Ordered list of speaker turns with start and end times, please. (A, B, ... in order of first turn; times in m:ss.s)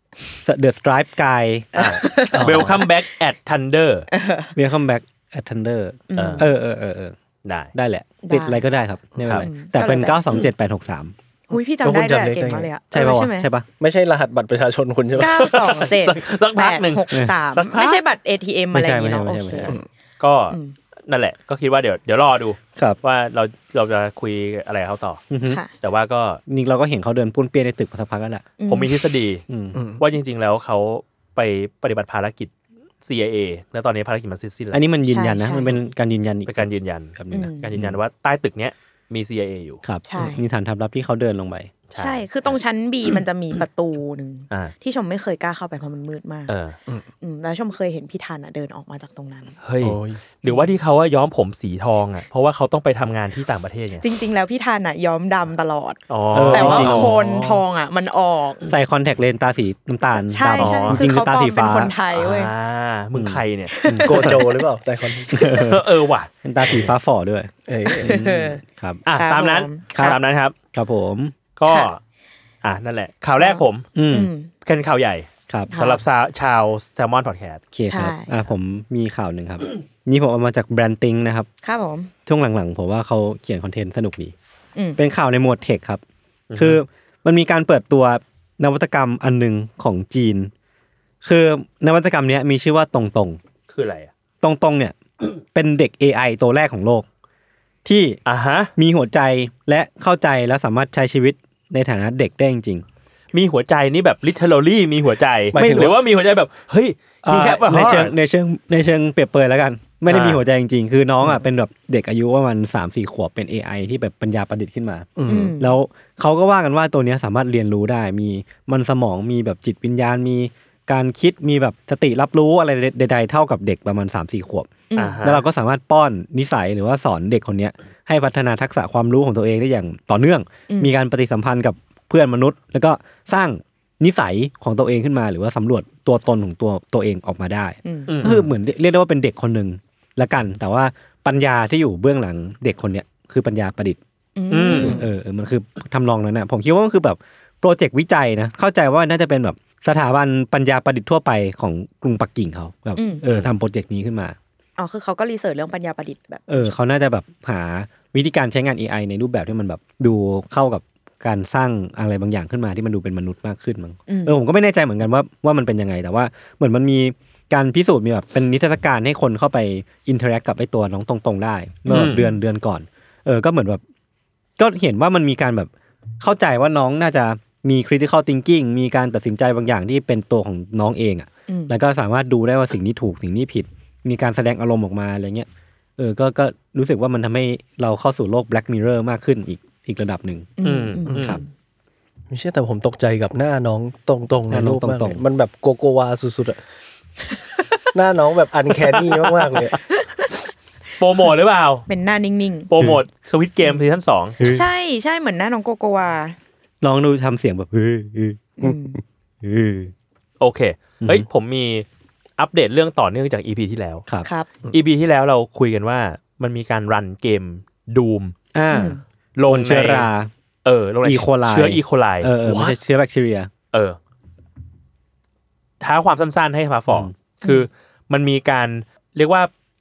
0:00.4-0:01.7 A
0:01.7-0:02.9 B
0:01.7-0:04.1 C
0:02.3-0:02.8 D
0:04.1-0:04.5 B
0:04.5-0:07.2 A
0:06.1-0:06.5 B
0:06.2-0:06.4 C
0:07.4-0:07.7 C
0:07.7-0:11.1 A
0:08.2-0:08.6 B
0:09.2-0:09.5 C
0:09.4-0:10.2 B
0:11.5-0:13.5 B
0:11.5-0:12.7 D
0:12.9-0:13.7 A
0:13.8-0:15.4 D
0:15.2-0:19.8 B
0:15.2-0:18.0 C
0:18.7-0:19.8 A
0:20.2-0:25.2 C
0:25.3-0:25.6 A
0:25.4-0:25.7 B
0:25.8-0:26.4 C
0:26.5-0:28.4 A
0:28.6-0:28.9 B
0:28.7-0:29.4 C
0:29.5-0:29.8 A
0:29.7-0:30.0 D
0:30.0-0:34.8 C
0:34.7-0:38.0 A
0:35.0-0:35.7 B
0:36.5-0:39.8 C
0:37.3-0:37.7 B
0:39.8-0:41.7 A
0:40.0-0:40.4 B
0:41.9-0:42.5 C
0:41.9-0:46.5 B
0:46.5-0:46.8 C
0:47.2-0:49.5 B
0:49.6-0:54.0 C
0:49.8-0:50.2 D
0:54.0-0:58.6 B
0:56.1-0:57.1 C
0:56.3-0:57.1 A
0:56.7-0:57.6 D
0:58.7-1:01.9 A
1:00.2-1:02.5 B
1:00.6-1:01.0 C
1:02.1-1:04.3 C
1:03.1-1:04.4 A
1:03.7-1:04.4 B
1:04.0-1:05.6 D
1:05.3-1:05.8 A
1:05.4-1:06.9 C
1:06.4-1:09.0 A
1:07.7-1:08.1 D
1:07.9-1:08.6 B
1:09.1-1:10.5 C
1:09.1-1:10.2 B
1:09.9-1:10.2 A
1:10.7-1:11.3 A
1:11.6-1:12.0 C
1:12.6-1:13.9 C
1:13.4-1:14.5 B
1:14.0-1:14.3 A
1:14.6-1:17.6 C
1:15.7-1:16.0 B
1:17.7-1:21.5 A
1:17.9-1:18.4 B
1:21.6-1:22.1 B
1:22.2-1:24.3 A
1:25.0-1:26.0 A
1:26.5-1:26.8 C
1:26.6-1:30.5 A
1:31.2-1:33.4 A
1:33.7-1:34.1 C
1:34.4-1:37.0 A
1:37.8-1:38.2 A
1:38.2-1:38.7 C
1:38.8-1:42.8 A
1:43.3-1:48.1 C
1:45.5-1:45.8 A
1:45.5-1:45.9 D
1:47.2-2:24.0 A
1:50.1-1:50.4 C
1:55.2-1:55.5 D
1:55.3-1:55.7 B
2:04.9-2:05.2 B
2:05.0-2:05.4 C
2:10.7-2:10.9 B
2:17.8-2:18.1 B
2:18.1-2:18.5 C
2:24.4-2:25.0 B
2:24.5-2:25.0 C
2:24.7-2:34.4 A
2:33.0-2:33.2 B
2:34.8-2:36.7 B
2:36.5-2:53.8 A
2:44.1-2:44.4 B
2:51.9-2:52.4 B
2:51.9-2:52.2 C
2:54.6-3:10.5 A
3:01.5-3:01.7 B
3:10.6-3:11.4 B
3:10.6-3:11.4 C
3:11.2-3:11.4 A
3:12.3-3:16.6 D
3:14.5-3:15.2 A
3:17.9-3:19.8 D
3:19.9-3:20.4 B
3:21.0-3:21.8 C
3:21.9-3:22.7 B
3:22.7-3:24.4 C
3:24.4-3:24.6 A
3:24.4-3:26.4 B
3:26.8-3:28.5 A
3:28.6-3:29.0 B
3:29.4-3:29.9 A
3:30.4-3:31.8 C
3:32.4-3:34.0 C
3:34.2-3:34.5 B
3:34.7-3:38.3 C
3:38.5-3:40.3 A
3:38.7-3:39.0 B
3:39.4-3:40.1 C
3:40.6-3:42.7 C
3:41.0-3:43.5 A
3:43.7-3:44.0 C
3:45.8-3:49.5 C